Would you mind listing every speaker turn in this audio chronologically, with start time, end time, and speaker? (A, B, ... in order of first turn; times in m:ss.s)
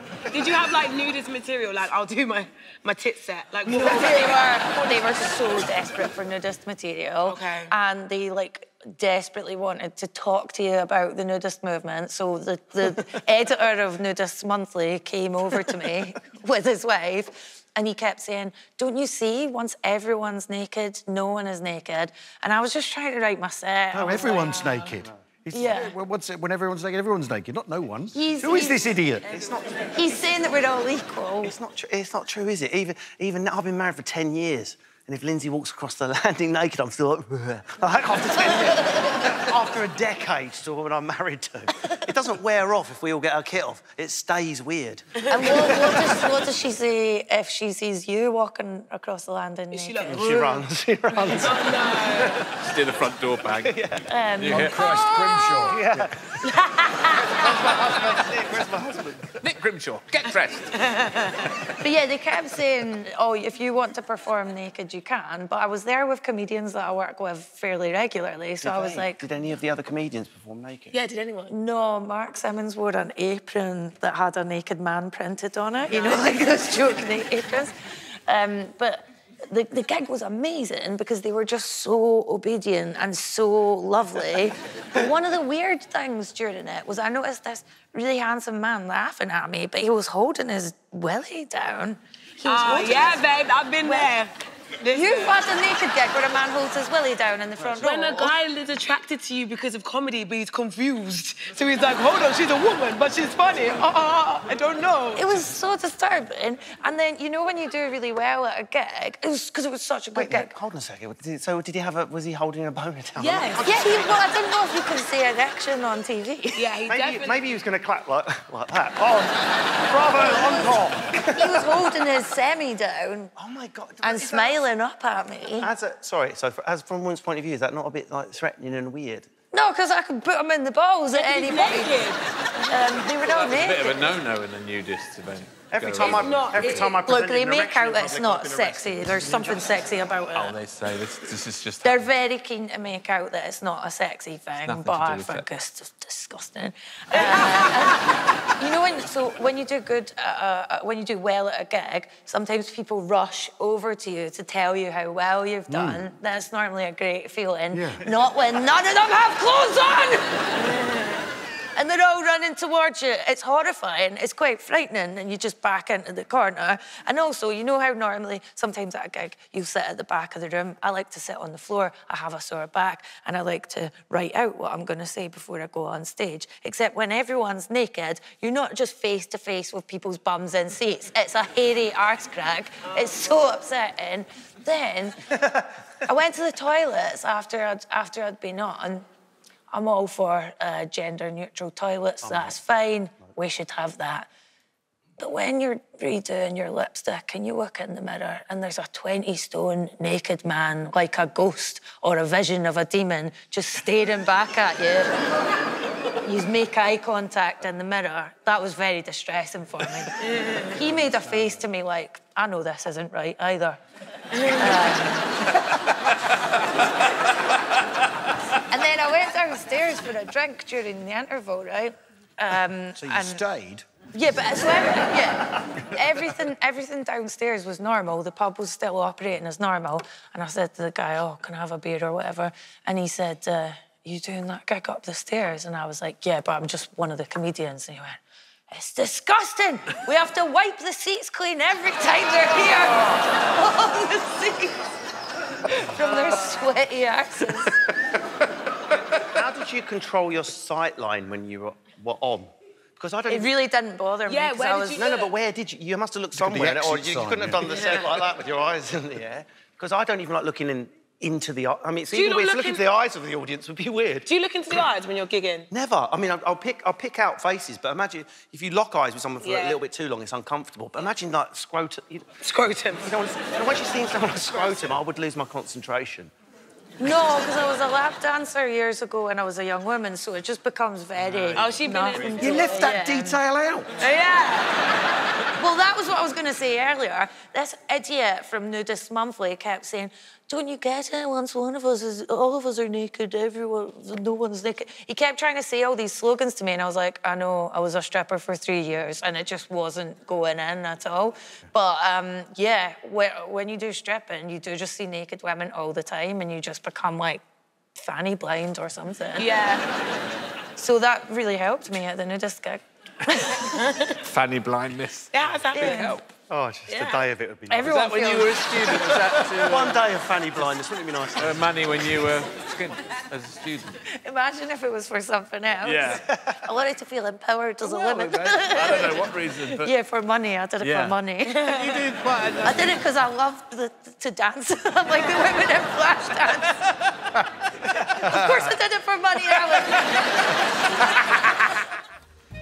0:00.3-0:04.4 A
0:03.6-0:24.9 B
0:07.2-0:07.7 A
0:23.9-0:29.2 C
0:24.0-0:24.2 D
0:25.5-0:26.0 B
0:28.1-0:29.0 B
0:29.1-0:30.2 D
0:30.0-0:31.6 B
0:31.4-0:46.4 D
0:45.3-0:50.2 B
0:49.7-0:50.6 A
0:50.1-0:52.4 D
0:51.2-0:52.4 A
0:52.6-0:53.8 E
0:53.5-0:54.0 D
0:54.0-0:55.7 B
0:54.4-0:54.8 E
0:54.5-0:56.1 C
0:55.6-0:56.1 D
0:56.4-0:57.4 A
0:57.3-0:59.3 D
0:59.4-1:00.7 E
1:00.8-1:01.5 A
1:01.8-1:09.2 B
1:08.6-1:11.0 D
1:10.9-1:11.5 A
1:11.5-1:17.7 B
1:15.9-1:16.2 A
1:18.3-1:33.2 B
1:32.4-1:35.4 A
1:33.8-1:34.1 B
1:34.9-1:38.3 B
1:37.8-1:45.3 A
1:45.1-1:50.5 B
1:50.1-1:54.2 D
1:53.2-1:53.8 A
1:53.6-1:56.6 B
1:56.5-1:57.4 A
1:56.9-2:01.8 D
2:00.1-2:00.8 B
2:01.3-2:03.3 B
2:03.4-2:04.7 D
2:04.0-2:05.7 B
2:05.6-2:09.3 D
2:09.5-2:12.0 B
2:11.1-2:12.3 A
2:12.7-2:14.1 B
2:13.2-2:16.9 E
2:15.7-2:19.8 D
2:16.0-2:17.0 A
2:16.9-2:20.6 B
2:20.3-2:22.0 E
2:21.8-2:40.6 B
2:24.5-2:25.5 E
2:27.1-2:28.1 A
2:35.7-2:36.0 C
2:37.7-2:38.0 C
2:41.7-3:05.3 B
3:06.0-3:09.0 B
3:09.7-3:14.3 B
3:12.2-3:12.6 D
3:15.2-3:25.1 B
3:26.2-3:30.1 B
3:30.2-3:30.7 A
3:30.7-3:33.8 B
3:34.4-3:34.6 A
3:34.4-3:35.8 B
3:38.6-3:43.4 B
3:43.0-3:43.9 C
3:44.1-4:04.9 B
4:05.6-4:07.8 B
4:06.0-4:06.6 A
4:09.2-4:13.5 D
4:13.3-4:15.0 B
4:14.2-4:15.3 A
4:14.9-4:24.3 D
4:16.3-4:17.9 C
4:17.6-4:18.1 A
4:22.1-4:22.8 A
4:24.2-4:25.7 A
4:25.7-4:32.3 D
4:29.4-4:29.8 A
4:32.4-4:33.1 A
4:33.0-4:36.3 D
4:37.0-4:43.4 B
4:41.3-4:41.6 E
4:41.5-4:42.9 A
4:42.4-4:43.0 D
4:42.4-4:43.9 C
4:44.0-4:44.8 A
4:45.6-5:07.4 B
5:08.0-5:09.5 B
5:09.4-5:09.8 A
5:10.8-5:13.9 B
5:14.2-5:16.3 E
5:15.3-5:16.2 A
5:16.5-5:17.9 D
5:16.9-5:17.2 A
5:17.7-5:18.7 B
5:17.8-5:20.1 E
5:18.9-5:21.6 D
5:21.3-5:24.0 E
5:24.1-5:31.8 B
5:25.8-5:26.4 E
5:27.8-5:29.9 E
5:30.8-5:31.2 E
5:31.5-5:32.0 A
5:31.7-5:33.0 E
5:32.6-5:37.0 B
5:37.9-5:40.6 B
5:41.3-5:41.6 E